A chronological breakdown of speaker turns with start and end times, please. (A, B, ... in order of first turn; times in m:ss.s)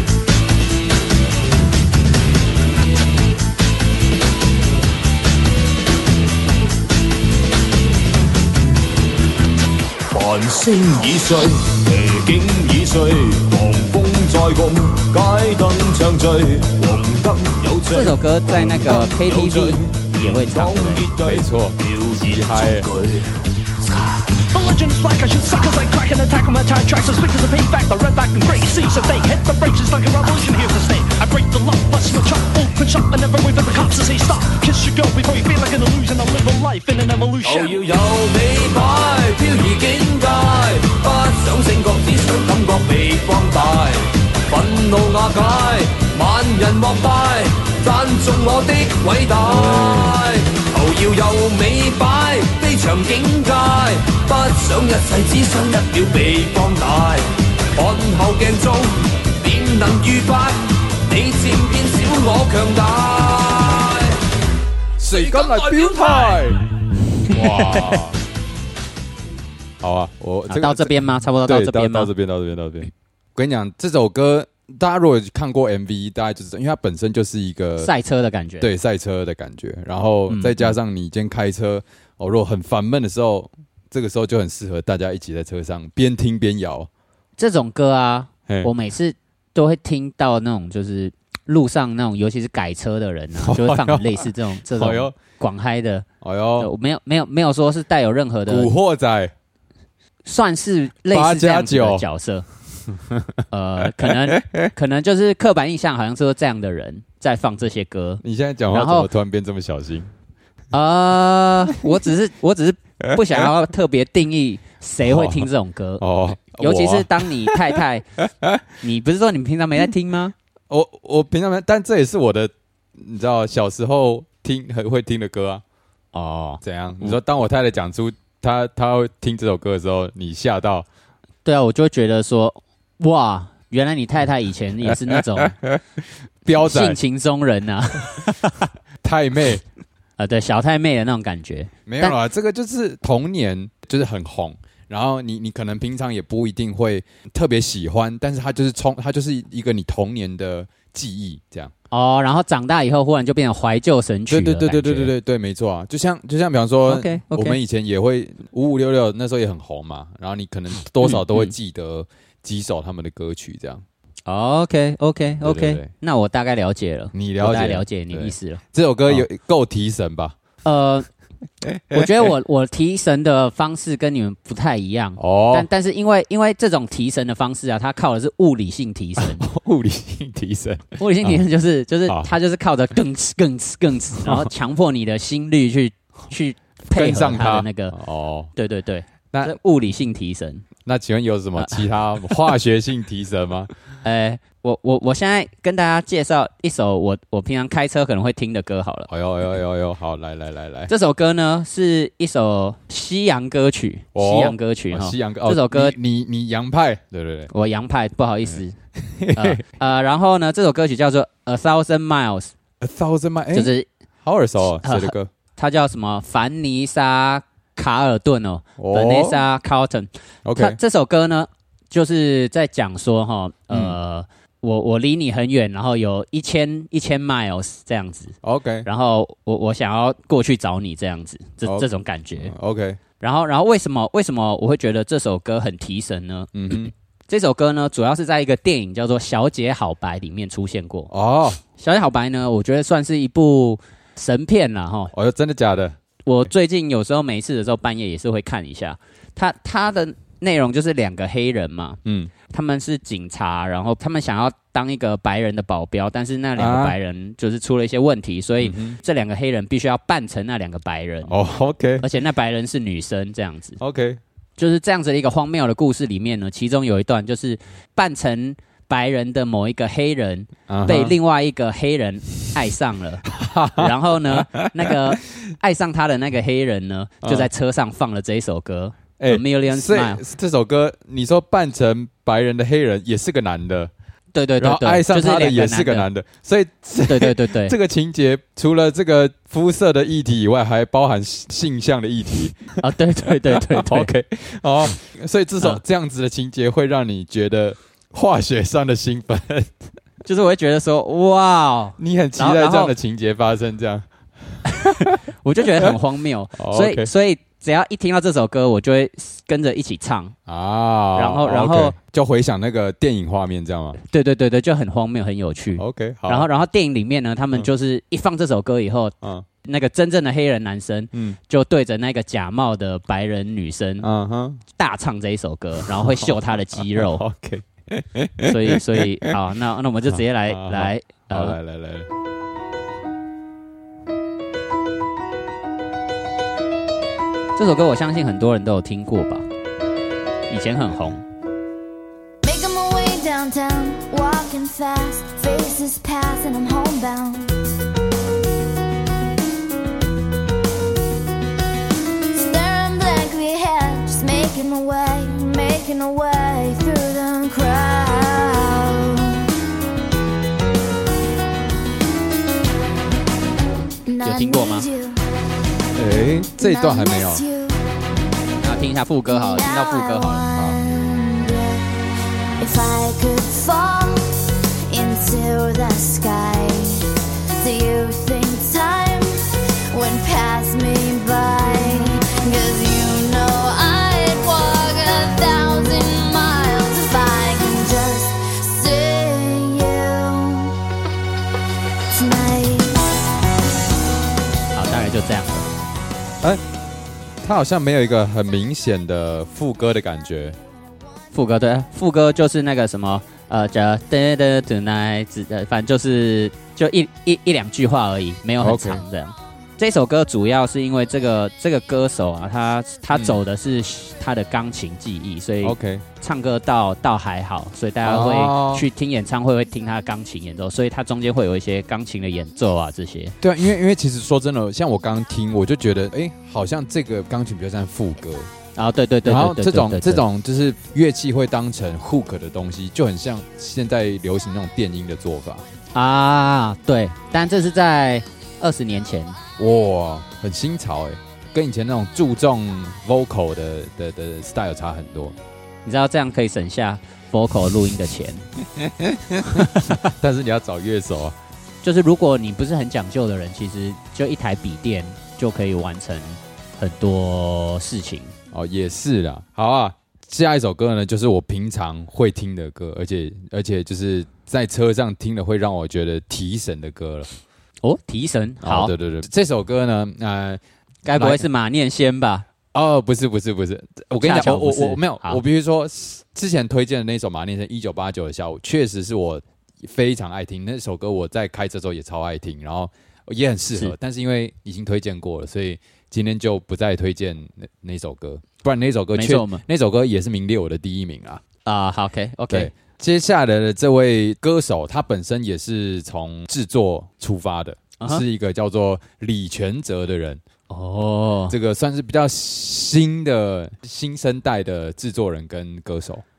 0:10.1-0:23.3 A
0:17.9-0:21.0 B
0:21.2-0:22.9 C
0:24.5-0:37.8 D
0:37.4-1:04.2 A
0:49.4-0:50.2 C
1:05.0-1:06.6 C
1:05.0-1:06.5 A
1:07.3-1:08.2 C
1:07.3-1:07.9 B
1:09.8-1:17.9 C
1:10.5-1:12.1 B
1:17.8-1:18.7 B
1:18.6-1:26.9 C
1:20.3-1:20.7 B
1:27.4-1:36.0 B
1:28.5-1:28.7 C
1:33.4-1:35.1 C
1:36.2-1:36.7 C
1:36.6-1:38.7 B
1:38.5-1:39.3 C
1:40.2-1:42.4 B
1:41.1-1:42.0 C
1:43.1-1:44.6 C
1:43.5-1:48.2 B
1:48.2-1:50.1 C
1:48.7-1:49.1 B
1:50.7-1:56.0 B
1:55.0-1:55.5 C
1:56.0-1:57.8 C
1:56.5-1:58.0 B
1:58.8-2:00.3 B
2:00.7-2:05.6 C
2:06.1-2:07.1 B
2:06.6-2:10.8 C
2:11.4-2:15.6 B
2:16.4-2:17.0 C
2:16.5-2:18.6 B
2:19.0-2:19.6 C
2:20.2-2:22.1 B
2:21.8-2:31.7 C
2:31.9-2:35.1 B
2:34.3-2:43.8 C
2:36.9-2:37.6 B
2:41.0-2:41.5 B
2:44.3-2:49.2 B
2:45.4-2:45.9 C
2:47.1-2:50.4 C
2:50.6-2:51.1 B
2:51.9-2:59.4 B
2:55.2-2:55.7 C
2:59.2-3:01.4 C
3:01.0-3:07.9 B
3:02.1-3:02.3 C
3:06.9-3:08.5 C
3:08.6-3:10.6 B
3:10.8-3:13.7 C
3:14.0-3:19.1 B
3:19.1-3:20.9 C
3:20.9-3:26.0 B
3:24.1-3:27.5 C
3:27.5-3:28.7 B
3:29.0-3:29.6 C
3:29.3-3:32.5 B
3:32.8-3:33.7 C
3:33.5-3:33.9 B
3:34.2-3:35.3 C
3:34.8-3:52.5 B
3:38.8-3:39.4 C
3:40.4-3:40.8 C
3:43.7-3:44.0 C
3:48.4-3:48.9 C
3:51.6-3:53.0 C
3:53.2-3:56.5 B
3:56.5-3:56.9 C
3:57.3-4:01.1 B
4:01.1-4:01.6 C
4:01.8-4:05.1 B
4:05.1-4:06.0 C
4:06.2-4:21.3 B
4:12.0-4:12.3 C
4:16.6-4:17.0 C
4:18.6-4:19.0 C
4:21.2-4:22.0 C
4:22.0-4:23.8 B
4:23.8-4:24.2 C
4:24.6-4:40.2 B
4:30.7-4:31.1 C
4:33.2-4:34.9 C
4:37.2-4:37.5 C
4:39.2-4:43.9 C
4:44.3-4:46.1 B
4:44.6-4:59.7 C
4:47.0-4:47.7 B
4:52.8-4:54.1 B
5:00.2-5:02.9 B
5:02.0-5:06.0 C
5:04.6-5:10.3 B
5:06.6-5:07.1 C
5:10.5-5:14.0 C
5:11.1-5:11.9 B
5:14.1-5:24.1 B
5:15.8-5:16.5 C
5:21.1-5:21.4 C
5:24.0-5:24.6 C
5:24.8-5:27.2 B
5:25.8-5:29.3 C
5:28.4-5:31.6 B
5:30.1-5:32.1 C
5:37.6-5:39.4 B
5:40.5-5:41.2 B
5:42.4-5:47.5 E
5:52.4-5:59.4 E
6:04.1-6:05.2 E
6:04.2-6:04.9 B
6:05.9-6:07.4 C
6:06.6-6:07.8 E
6:08.6-6:10.5 B
6:09.4-6:11.8 E
6:10.5-6:10.8 C
6:12.6-6:14.2 E
6:14.9-6:16.8 E
6:17.6-6:19.2 E
6:19.9-6:30.7 E
6:32.1-6:32.9 E
6:34.7-6:35.7 B
6:37.4-6:40.6 C
6:41.3-7:03.3 B
6:48.6-6:49.0 C
6:53.1-6:53.4 C
6:55.6-6:56.0 C
6:58.0-6:58.8 C
7:03.4-7:08.5 C
7:08.8-7:10.2 B
7:09.2-7:15.6 C
7:15.9-7:19.4 B
7:19.6-7:25.3 C
7:25.8-7:28.4 B
7:29.5-7:30.0 B
7:29.5-7:31.4 C
7:31.8-7:38.3 B
7:38.5-7:47.3 C
7:47.8-7:48.9 B
7:48.6-7:50.6 C
7:51.0-7:52.4 B
7:51.1-7:51.5 C
7:52.7-8:11.4 C
7:54.2-7:55.4 B
8:09.1-8:09.6 B
8:11.6-8:12.7 B
8:12.5-8:20.4 C
8:20.7-8:21.5 B
8:21.5-8:26.2 C